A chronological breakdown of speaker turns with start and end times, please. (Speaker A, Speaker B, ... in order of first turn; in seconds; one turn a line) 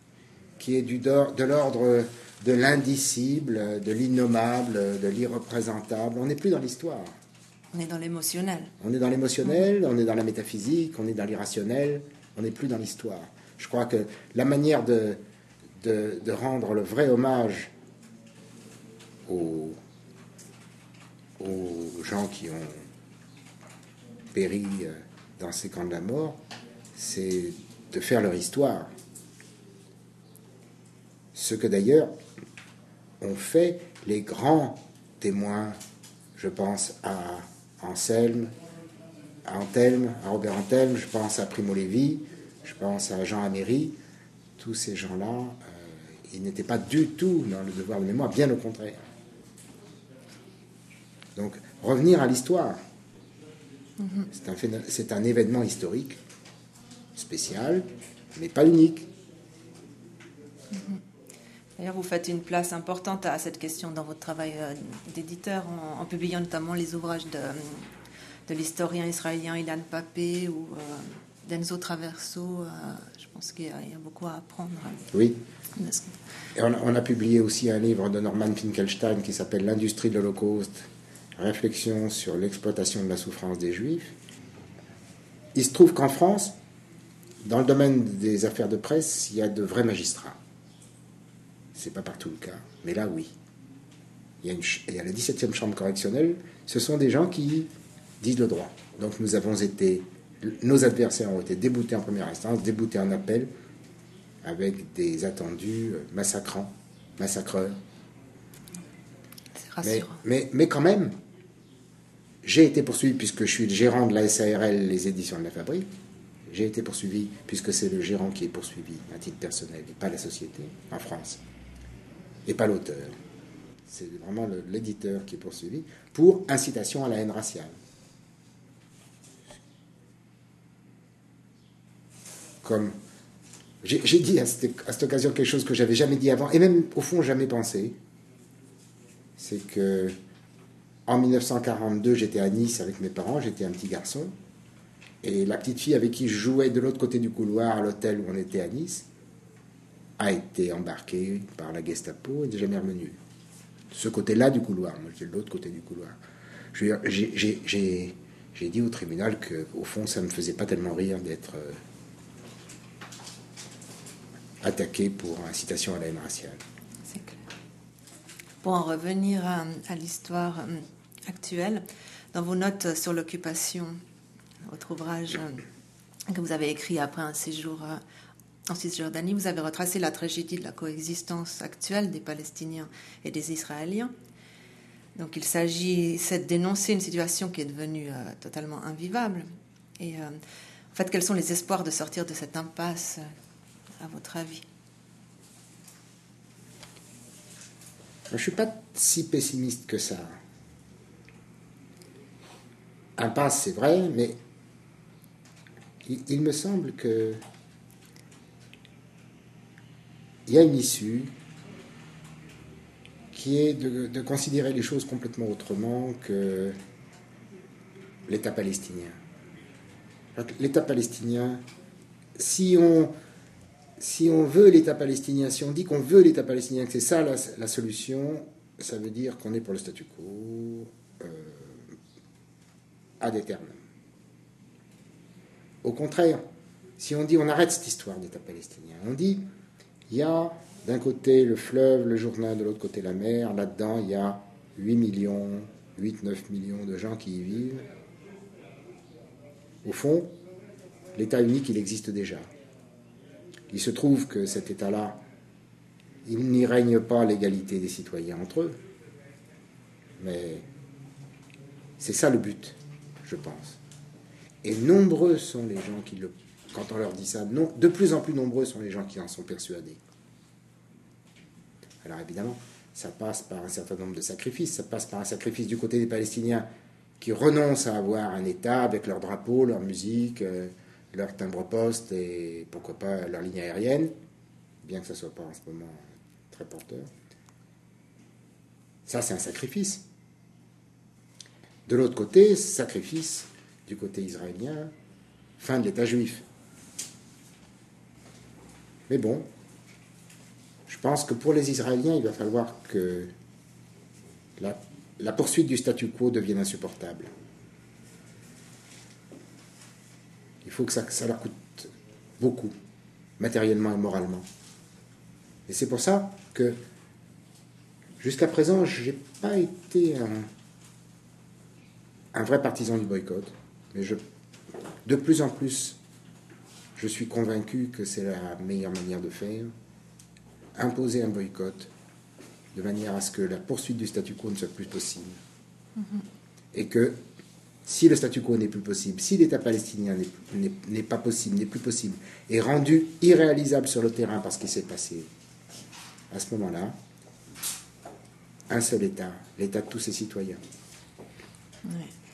Speaker A: 0.6-7.1
Speaker B: 7.7-8.7
Speaker A: 8.8-15.2
Speaker A: 15.8-17.7
Speaker A: 19.3-19.8
Speaker A: 21.4-22.9
Speaker A: 24.3-26.4
Speaker A: 26.9-28.9
Speaker A: 31.3-32.1
Speaker A: 33.2-35.8
Speaker A: 36.4-38.5
Speaker A: 39.4-43.9
Speaker A: 44.6-49.1
Speaker A: 51.4-52.8
Speaker B: 54.0-54.3
Speaker A: 54.3-56.2
Speaker A: 57.1-59.1
Speaker B: 60.7-61.0
Speaker B: 61.8-67.9
Speaker B: 68.5-75.1
Speaker A: 75.1-75.4
Speaker B: 75.7-76.2
Speaker A: 76.5-84.2
Speaker A: 85.5-86.5
Speaker A: 87.4-90.4
Speaker A: 91.7-93.3
Speaker A: 94.4-97.7
Speaker A: 98.2-103.5
Speaker A: 104.4-107.8
Speaker B: 109.6-110.2
Speaker A: 109.8-111.1
Speaker A: 112.4-115.9
Speaker A: 116.5-121.4
Speaker A: 122.5-123.1
Speaker A: 123.9-127.8
Speaker A: 132.6-132.9
Speaker A: 133.8-138.0
Speaker A: 139.4-140.2
Speaker A: 141.1-144.3
Speaker A: 145.2-149.1
Speaker A: 150.2-153.2
Speaker A: 153.9-156.2
Speaker A: 156.7-161.8
Speaker A: 164.6-166.6
Speaker B: 167.1-167.4
Speaker B: 168.6-174.0
Speaker B: 174.7-175.6
Speaker B: 176.3-178.0
Speaker B: 178.7-184.1
Speaker B: 185.2-189.4
Speaker B: 190.0-190.4
Speaker B: 190.9-193.2
Speaker B: 194.0-194.6
Speaker A: 198.3-200.3
Speaker A: 203.2-204.3
Speaker A: 206.0-207.4
Speaker A: 210.5-211.3
Speaker A: 213.3-216.7
Speaker A: 218.3-219.2
Speaker A: 220.3-221.6
Speaker A: 222.4-223.1
Speaker A: 224.0-231.9
Speaker A: 233.2-233.8
Speaker A: 235.8-236.4
Speaker A: 237.0-239.4
Speaker A: 240.1-247.8
Speaker A: 249.8-250.3
Speaker A: 251.1-252.5
Speaker A: 253.7-255.2
Speaker A: 256.2-258.8
Speaker A: 260.2-260.6
Speaker A: 262.0-263.8
Speaker A: 264.6-270.0
Speaker A: 272.0-276.7
Speaker A: 277.2-284.1
Speaker A: 284.8-287.1
Speaker A: 289.1-290.0
Speaker A: 291.9-294.9
Speaker A: 295.6-296.4
Speaker A: 299.1-299.4
Speaker A: 300.9-303.3
Speaker A: 304.6-307.3
Speaker A: 310.6-312.7
Speaker A: 313.4-314.4
Speaker A: 315.7-316.8
Speaker A: 318.2-320.5
Speaker A: 322.3-324.2
Speaker A: 325.0-326.0
Speaker A: 327.0-329.7
Speaker A: 330.8-331.9
Speaker A: 332.7-335.4
Speaker B: 336.0-336.2
Speaker A: 336.7-337.2
Speaker A: 337.9-345.3
Speaker A: 346.3-346.9
Speaker A: 348.7-350.6
Speaker B: 351.8-352.1